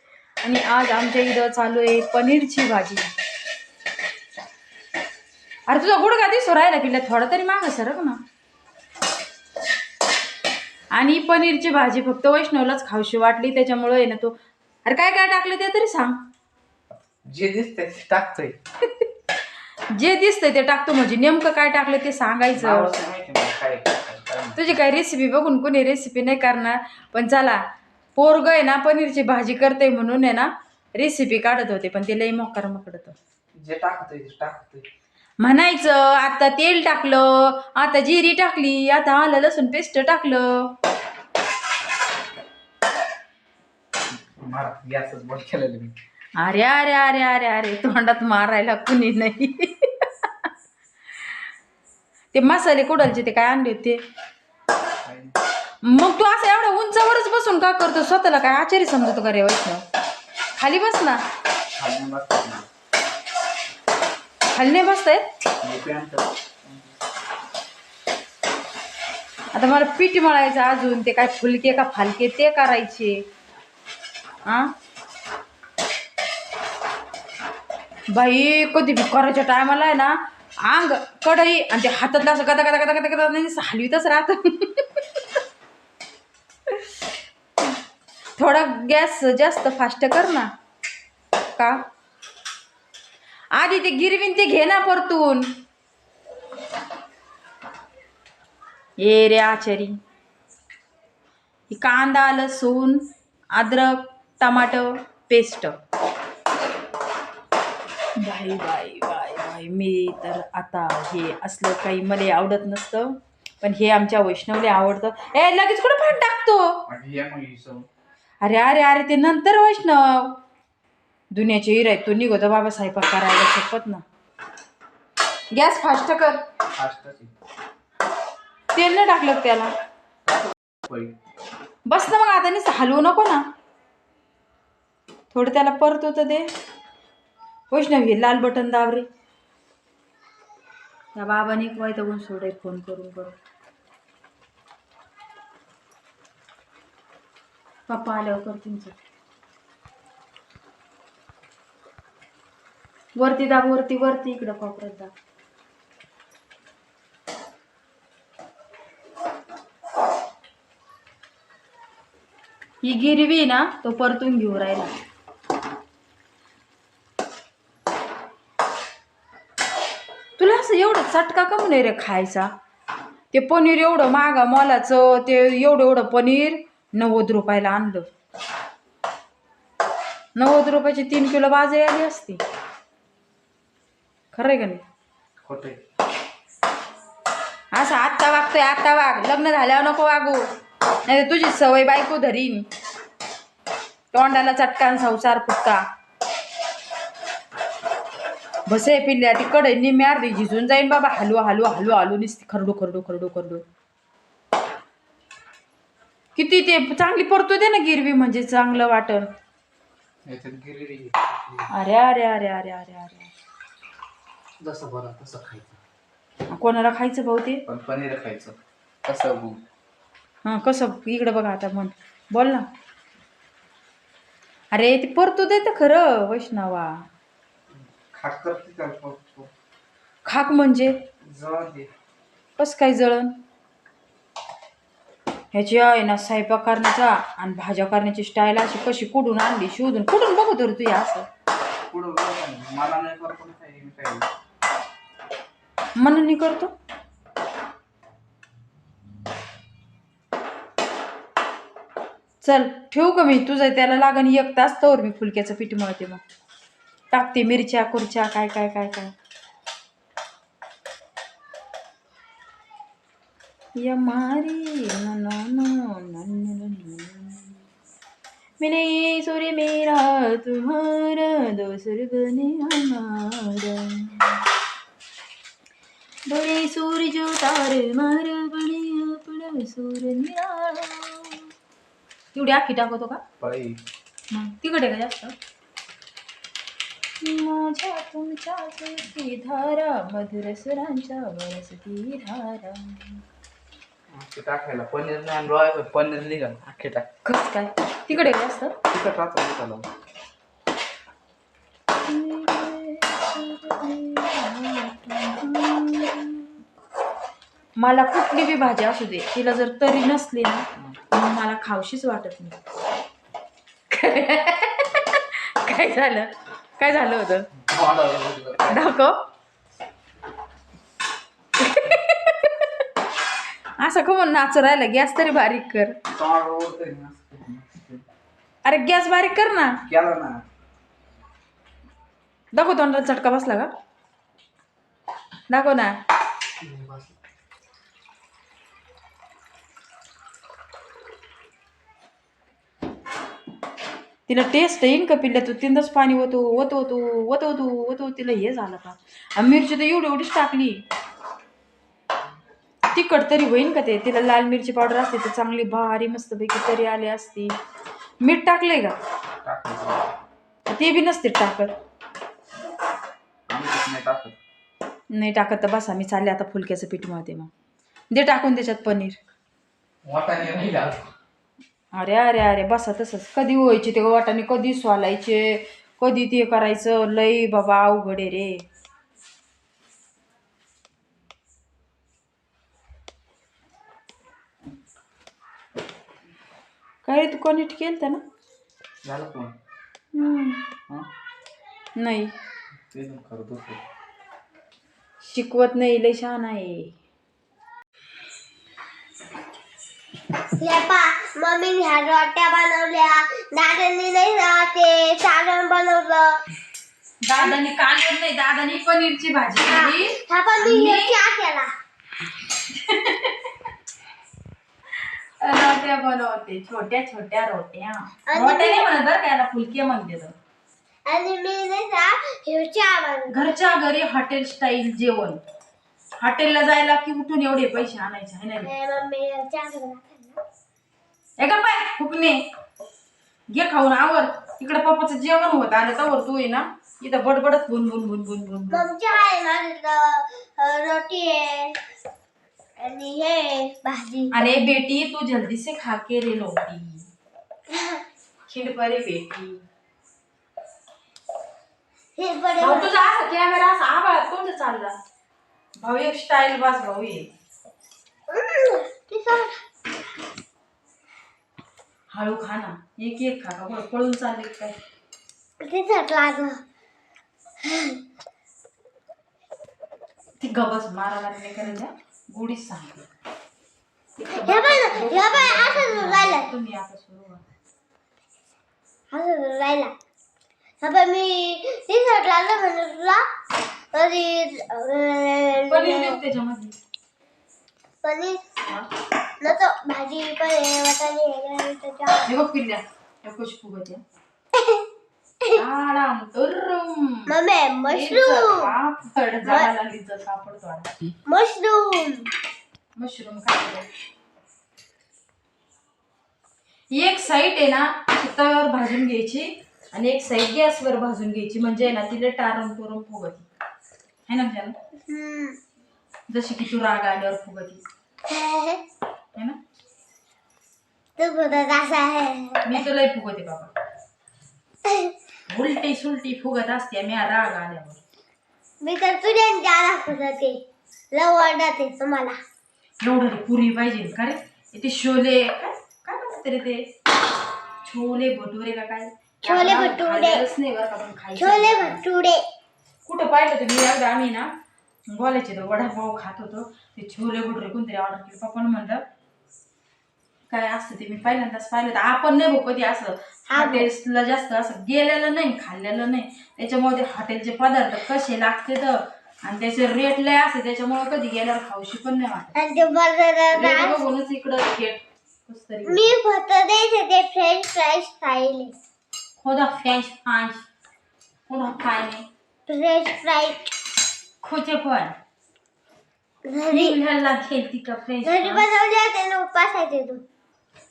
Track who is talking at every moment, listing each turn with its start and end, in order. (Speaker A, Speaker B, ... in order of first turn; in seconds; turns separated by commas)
Speaker A: 0.4-3.1, Speaker A: 5.7-8.2, Speaker A: 10.9-16.2, Speaker B: 17.2-18.6, Speaker A: 19.9-22.9, Speaker B: 22.5-24.6, Speaker A: 24.6-27.6, Speaker A: 28.1-33.2, Speaker B: 33.6-34.9, Speaker A: 35.4-40.7, Speaker B: 44.4-45.9, Speaker A: 46.4-50.5, Speaker A: 52.3-54.0, Speaker B: 55.0-55.4, Speaker A: 55.8-59.8, Speaker A: 60.5-61.2, Speaker B: 61.7-62.7, Speaker A: 64.5-65.2, Speaker B: 65.6-66.9, Speaker A: 69.5-73.2, Speaker A: 74.5-74.7, Speaker A: 78.1-85.0, Speaker A: 88.4-90.5, Speaker A: 91.5-91.8, Speaker A: 93.5-95.5, Speaker A: 99.0-100.0, Speaker A: 101.7-105.7, Speaker A: 108.2-116.8, Speaker B: 116.9-117.9, Speaker A: 118.4-120.4, Speaker A: 121.3-124.0, Speaker A: 125.5-126.4, Speaker B: 126.7-127.3, Speaker A: 128.7-129.7, Speaker B: 130.2-131.1, Speaker A: 131.8-133.4, Speaker A: 135.3-136.5, Speaker A: 137.7-139.1, Speaker A: 141.1-143.3, Speaker A: 147.9-148.9, Speaker A: 153.2-155.1, Speaker A: 162.8-164.9, Speaker A: 170.4-172.5, Speaker A: 173.3-178.1, Speaker A: 180.3-182.4, Speaker A: 184.3-184.8, Speaker B: 185.4-185.8, Speaker A: 187.7-190.4, Speaker A: 191.1-192.7, Speaker A: 194.1-195.8, Speaker A: 198.7-203.6, Speaker A: 206.3-209.3, Speaker B: 210.2-211.7, Speaker A: 211.7-213.3, Speaker B: 214.6-215.8, Speaker A: 216.5-217.6, Speaker B: 217.7-219.6, Speaker A: 220.4-222.7, Speaker A: 224.7-227.0, Speaker B: 227.7-229.5, Speaker A: 230.2-231.0, Speaker B: 231.2-231.9, Speaker A: 232.6-233.3, Speaker A: 235.5-241.3, Speaker B: 241.9-244.3, Speaker A: 246.0-246.7, Speaker A: 252.4-256.2, Speaker A: 257.1-259.1, Speaker A: 263.8-267.6, Speaker A: 268.6-274.4, Speaker A: 276.3-281.5, Speaker A: 282.3-283.2, Speaker B: 283.4-283.8, Speaker A: 284.3-285.3, Speaker A: 287.2-293.2, Speaker B: 294.1-297.1, Speaker A: 297.2-298.7, Speaker B: 298.9-299.9, Speaker A: 302.1-306.5, Speaker A: 307.8-312.6, Speaker A: 313.9-317.5, Speaker B: 317.6-318.9, Speaker A: 318.7-319.2, Speaker A: 321.6-322.7, Speaker A: 323.8-325.9, Speaker B: 326.1-328.0, Speaker A: 328.6-329.8, Speaker B: 329.9-330.4, Speaker A: 332.5-333.7, Speaker A: 335.5-336.0, Speaker B: 336.6-337.1, Speaker A: 344.3-350.8, Speaker A: 352.9-357.5, Speaker A: 358.2-359.0, Speaker B: 359.4-360.1, Speaker A: 360.7-361.7, Speaker B: 363.5-364.4, Speaker A: 365.1-367.5, Speaker A: 368.1-369.2, Speaker B: 370.0-371.1, Speaker A: 371.9-378.6, Speaker A: 387.0-388.2, Speaker B: 389.0-389.5, Speaker A: 390.1-390.6, Speaker A: 391.9-392.3, Speaker B: 392.9-393.8, Speaker A: 395.2-396.9, Speaker C: 400.6-406.4, Speaker A: 407.2-411.2, Speaker C: 409.6-411.7, Speaker A: 412.7-413.4, Speaker A: 415.4-420.3, Speaker C: 418.3-418.9, Speaker C: 421.1-423.3, Speaker A: 423.3-425.4, Speaker A: 426.2-428.7, Speaker C: 428.6-430.4, Speaker A: 431.4-432.4, Speaker A: 433.5-438.8, Speaker C: 438.7-441.8, Speaker C: 442.8-444.3, Speaker A: 444.3-447.1, Speaker C: 447.7-448.0, Speaker A: 448.5-449.6, Speaker C: 452.2-452.9, Speaker A: 452.6-454.9, Speaker A: 455.8-457.3, Speaker C: 458.3-459.6, Speaker A: 462.1-464.8, Speaker C: 465.6-466.6, Speaker C: 467.6-468.0, Speaker A: 470.4-473.1, Speaker A: 474.2-477.4, Speaker C: 474.4-476.5, Speaker C: 479.1-479.9, Speaker C: 480.8-483.2, Speaker C: 483.9-486.2, Speaker A: 485.7-486.8, Speaker C: 488.0-488.4, Speaker C: 489.4-492.3, Speaker A: 492.2-494.0, Speaker C: 494.5-494.8, Speaker A: 495.5-497.3, Speaker C: 497.3-498.7, Speaker A: 497.9-500.9, Speaker C: 499.4-499.7, Speaker C: 501.3-502.3, Speaker A: 503.0-503.9, Speaker A: 506.9-513.5, Speaker A: 514.3-514.8, Speaker C: 515.1-515.6, Speaker A: 516.3-517.8, Speaker C: 518.3-518.8, Speaker C: 521.2-522.8, Speaker A: 522.6-523.7, Speaker C: 524.9-525.1, Speaker A: 525.5-528.0, Speaker C: 528.8-530.6, Speaker C: 531.1-532.4, Speaker A: 533.0-536.8, Speaker A: 537.8-542.0, Speaker C: 539.5-540.4, Speaker C: 541.4-542.4, Speaker A: 543.0-544.5, Speaker A: 545.1-549.0, Speaker A: 550.5-562.5, Speaker C: 553.5-553.9, Speaker C: 562.5-564.0, Speaker A: 563.5-566.1, Speaker C: 565.9-568.7, Speaker A: 569.4-570.6, Speaker A: 571.5-572.2, Speaker C: 572.7-573.6, Speaker A: 574.4-575.1, Speaker C: 576.5-577.0, Speaker A: 576.7-578.6, Speaker C: 578.2-580.2